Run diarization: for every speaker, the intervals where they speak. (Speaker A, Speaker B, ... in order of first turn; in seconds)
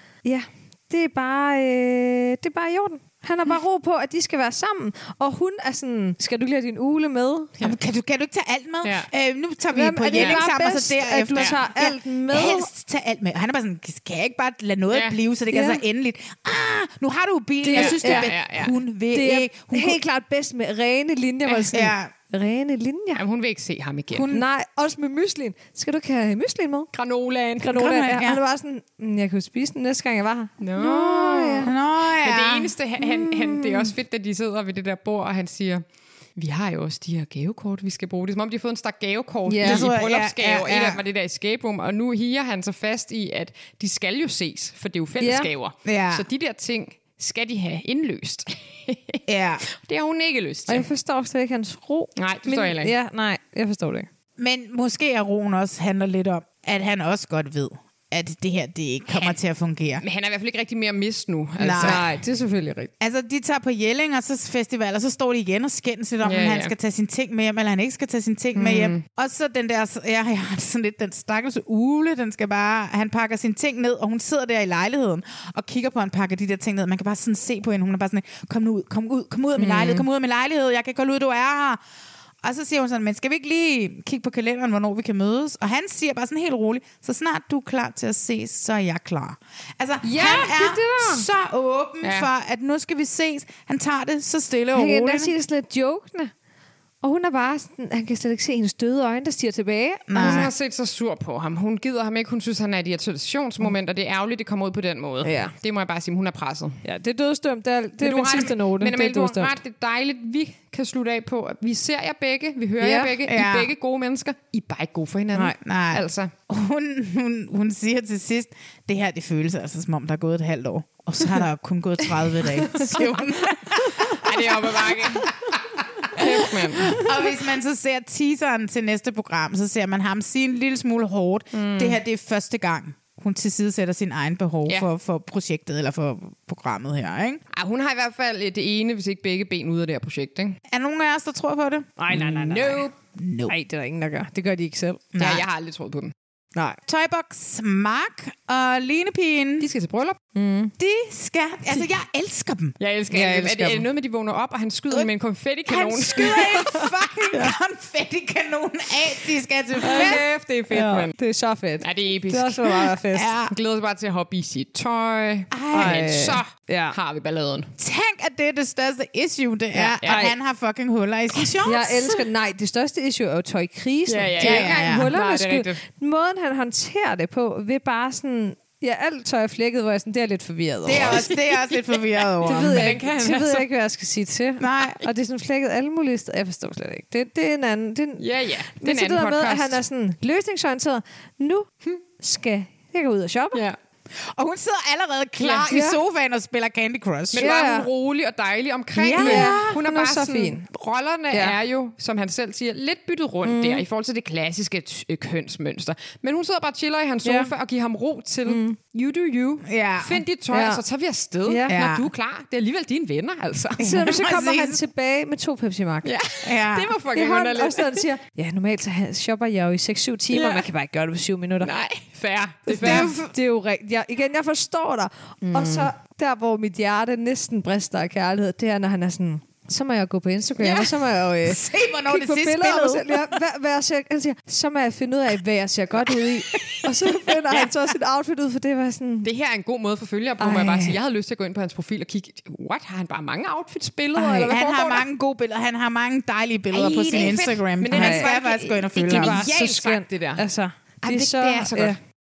Speaker A: 0.2-7.5, 9.7-12.7, 15.5-15.8, 17.6-18.3, 19.1-23.2, 24.3-26.9, 27.6-31.7, 39.5-39.9, 45.2-45.5, 50.7-54.1, 61.8-62.9, 79.6-80.0, 90.0-91.3, 94.7-96.3, 97.0-100.4, 105.2-105.5, 106.8-109.5, 112.8-113.1, 142.0-142.9, 143.5-145.0, 150.3-150.7, 153.1-153.9, 156.2-157.5, 159.8-163.3, 165.7-166.9, 170.0-170.3, 171.6-181.2, 182.4-188.2, 188.8-193.6, 195.7-196.0, 197.4-197.9, 199.2-200.7, 203.4-203.8, 207.2-207.5, 208.4-208.8, 210.5-210.8, 211.5-211.8, 213.8-216.1, 217.1-221.7, 222.7-239.3, 240.4-241.0, 247.9-248.3, 249.1-252.0
Speaker B: 7.6-20.0, 21.7-22.1, 24.1-24.4, 27.7-28.4, 31.6-32.7, 39.6-41.0, 45.9-46.2, 49.3-49.6, 54.4-60.0, 61.6-62.0, 63.0-81.8, 82.4-95.3, 100.1-100.5, 113.2-113.7, 115.6-125.3, 125.8-137.4, 140.7-141.9, 143.2-143.5, 145.2-145.4, 146.9-149.7, 150.8-152.7, 155.7-160.2, 163.1-163.5, 165.5-166.0, 167.8-172.2, 174.4-175.1, 180.8-183.0, 184.6-185.0, 194.3-197.5, 198.9-199.8, 209.7-210.2, 211.7-212.1, 213.8-214.8, 216.4-216.9, 222.7-223.3, 230.6-233.3, 236.1-236.8, 244.3-249.4, 251.1-251.7
Speaker C: 8.8-9.1, 10.1-10.4, 14.9-15.2, 17.7-18.8, 23.1-24.3, 26.9-27.7, 30.6-35.8, 36.4-49.2, 49.8-50.9, 52.2-52.9, 59.1-59.4, 60.0-62.1, 66.2-66.7, 68.5-69.0, 92.0-92.3, 100.1-106.8, 108.0-116.3, 124.1-125.3, 126.2-127.0, 131.5-132.0, 137.5-140.6, 142.1-142.9, 145.2-146.1, 149.6-150.2, 152.8-156.6, 159.8-161.1, 161.8-162.9, 163.5-167.7, 169.7-170.2, 174.1-175.8, 180.9-181.8, 182.3-183.7, 188.2-189.8, 195.4-195.7, 197.3-214.1, 216.0-218.1, 220.3-220.7, 221.6-223.1, 225.4-225.9, 239.2-245.1, 246.7-250.4, 251.1-251.9